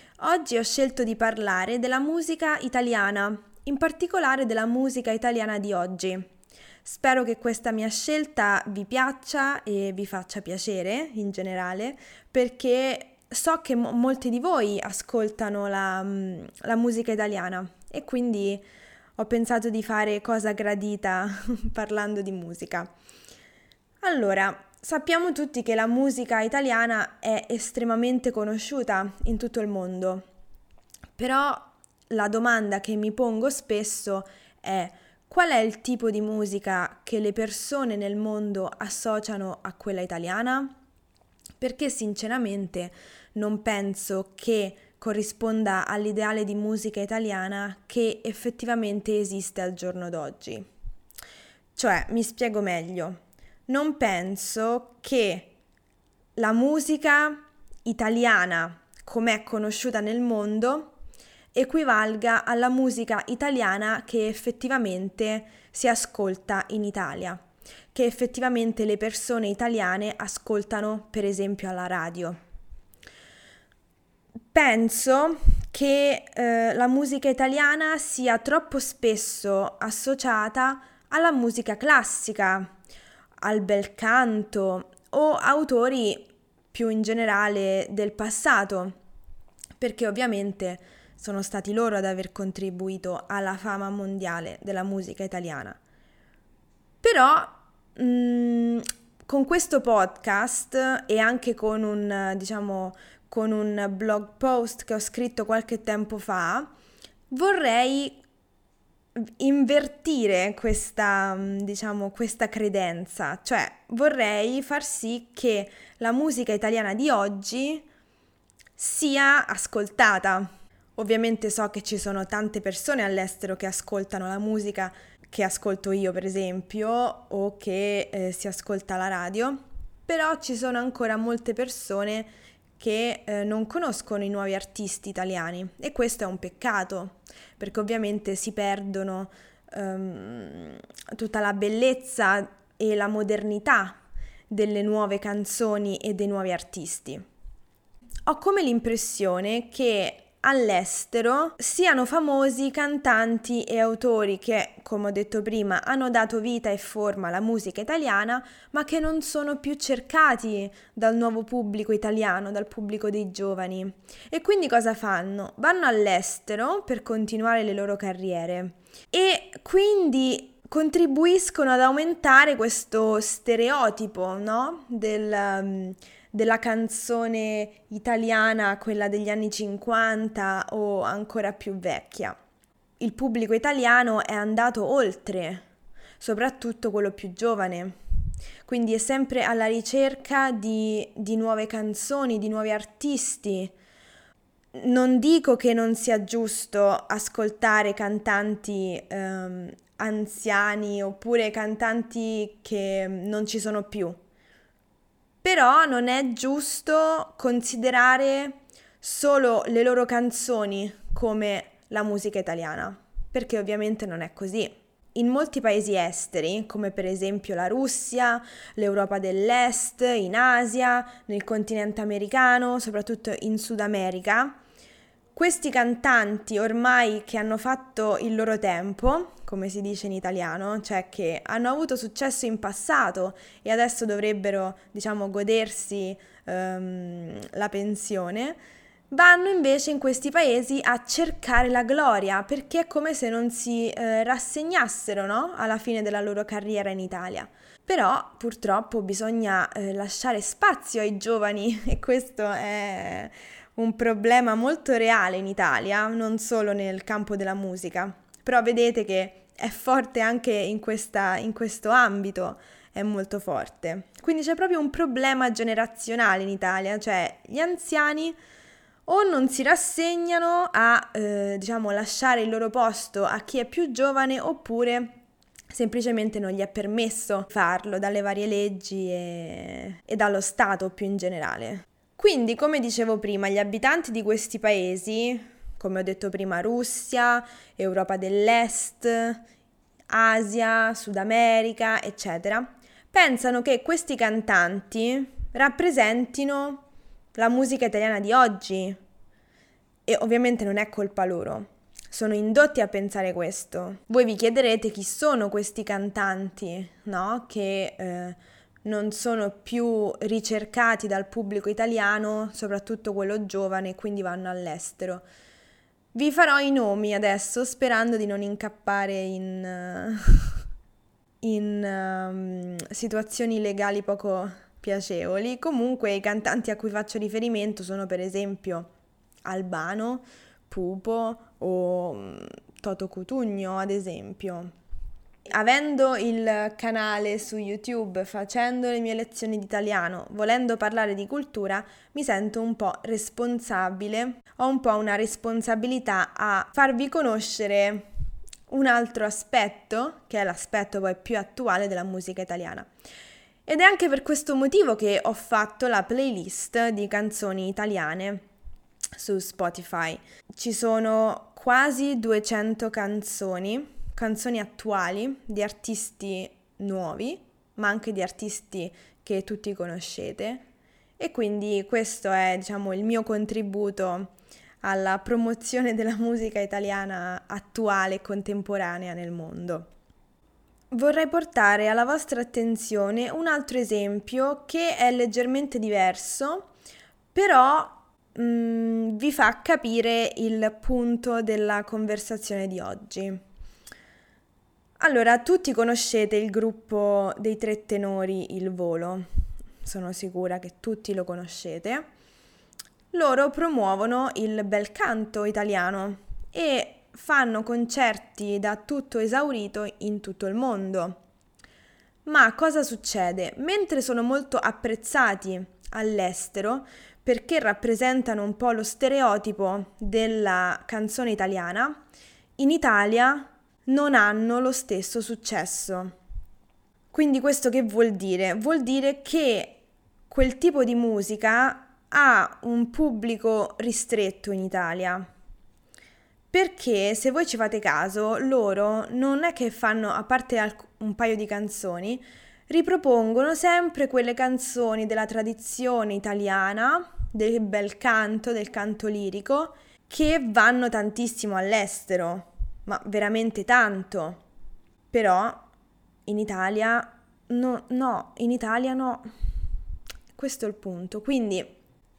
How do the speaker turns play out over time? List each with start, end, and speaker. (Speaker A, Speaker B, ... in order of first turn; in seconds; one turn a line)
Speaker A: 0.2-6.3
Speaker A: 6.8-18.6
Speaker A: 19.2-22.9
Speaker A: 24.0-30.2
Speaker A: 31.2-40.7
Speaker A: 41.6-50.7
Speaker A: 51.8-55.5
Speaker A: 56.4-60.9
Speaker A: 61.5-67.4
Speaker A: 67.9-72.4
Speaker A: 74.5-82.7
Speaker A: 83.4-89.0
Speaker A: 89.8-95.8
Speaker A: 97.0-106.7
Speaker A: 107.3-108.2
Speaker A: 109.2-117.9
Speaker A: 118.8-144.0
Speaker A: 144.5-147.2
Speaker A: 148.3-182.4
Speaker A: 183.0-185.7
Speaker A: 186.2-188.0
Speaker A: 188.7-193.7
Speaker A: 194.8-204.2
Speaker A: 205.4-224.6
Speaker A: 225.3-238.6
Speaker A: 239.1-268.4
Speaker A: 269.1-275.2
Speaker A: 275.7-289.4
Speaker A: 290.1-299.0
Speaker A: 300.1-315.3
Speaker A: 316.1-320.5
Speaker A: 321.4-328.9
Speaker A: 329.4-334.7
Speaker A: 335.5-348.1
Speaker A: 348.7-352.9
Speaker A: 353.7-358.4
Speaker A: 359.2-370.6
Speaker A: 371.2-379.9
Speaker A: 380.9-386.7
Speaker A: 387.3-393.4
Speaker A: 395.0-399.3
Speaker A: 399.8-402.1
Speaker A: 403.1-411.2
Speaker A: 412.3-422.0
Speaker A: 422.6-426.1
Speaker A: 427.1-435.3
Speaker A: 436.5-454.4
Speaker A: 455.1-455.7
Speaker A: 456.3-459.3
Speaker A: 460.3-461.7